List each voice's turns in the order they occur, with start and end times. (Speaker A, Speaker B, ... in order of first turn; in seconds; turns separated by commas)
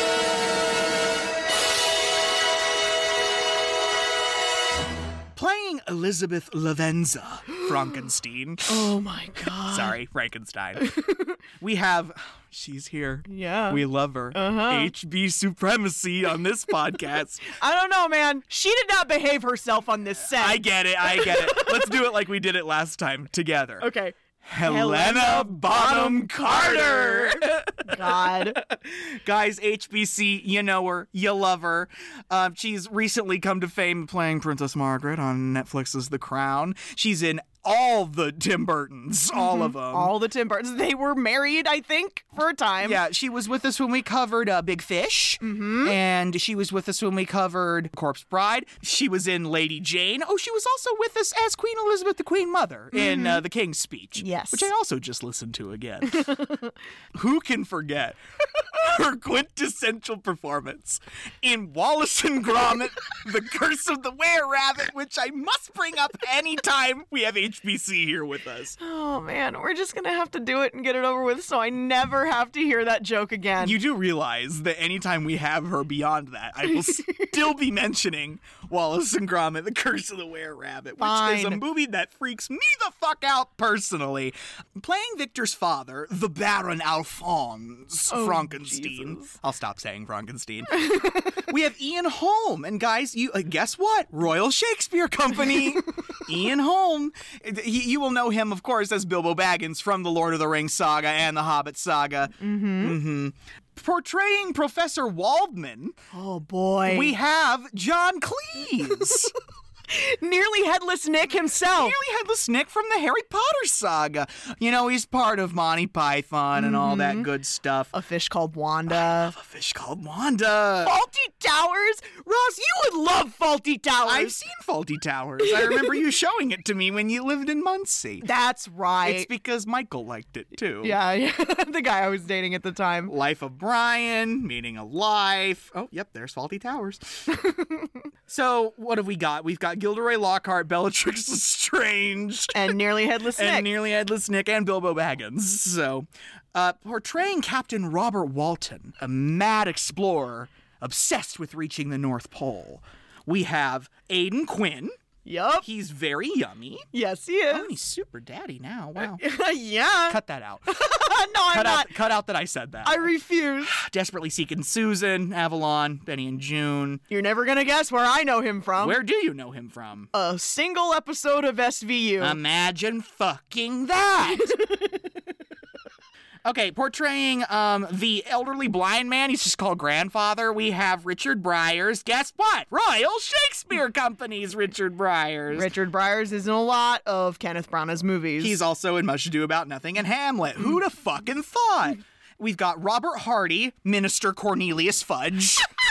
Speaker A: 5.3-8.9, Speaker B: 8.7-10.0, Speaker A: 9.7-10.9, Speaker B: 10.8-11.3, Speaker A: 11.6-17.5, Speaker B: 13.3-13.8, Speaker B: 14.3-14.9, Speaker B: 17.5-21.9, Speaker A: 20.3-23.9, Speaker B: 23.8-28.6, Speaker A: 24.4-40.1, Speaker B: 39.3-43.0, Speaker A: 42.8-56.3, Speaker B: 45.4-45.9, Speaker B: 52.9-53.4, Speaker B: 54.2-54.7, Speaker B: 56.2-56.7, Speaker A: 57.1-58.2, Speaker A: 58.7-68.8, Speaker B: 68.8-73.8, Speaker A: 73.6-106.0, Speaker B: 77.0-77.2, Speaker B: 81.0-81.6, Speaker B: 88.1-89.3, Speaker B: 90.9-91.2, Speaker B: 102.4-103.0, Speaker B: 106.1-107.1, Speaker A: 106.8-109.3, Speaker B: 109.9-112.0, Speaker A: 111.7-117.9, Speaker B: 116.5-117.3, Speaker B: 117.9-119.3, Speaker A: 118.9-120.9, Speaker B: 120.8-124.4, Speaker A: 124.0-128.3, Speaker B: 125.5-125.9, Speaker B: 128.2-129.3, Speaker A: 129.0-131.0, Speaker B: 130.8-133.1, Speaker A: 133.1-137.3, Speaker A: 138.3-142.8, Speaker B: 142.5-143.7, Speaker A: 143.3-154.9, Speaker B: 155.2-155.6, Speaker A: 155.6-156.9, Speaker B: 156.9-157.7, Speaker A: 157.5-159.2, Speaker B: 159.0-161.9, Speaker A: 160.1-160.7, Speaker A: 161.5-163.1, Speaker B: 162.8-163.7, Speaker A: 163.6-167.0, Speaker B: 167.1-169.0, Speaker A: 168.8-170.1, Speaker B: 170.1-172.4, Speaker A: 172.2-174.6, Speaker A: 176.4-185.7, Speaker B: 185.5-188.6, Speaker A: 188.4-195.7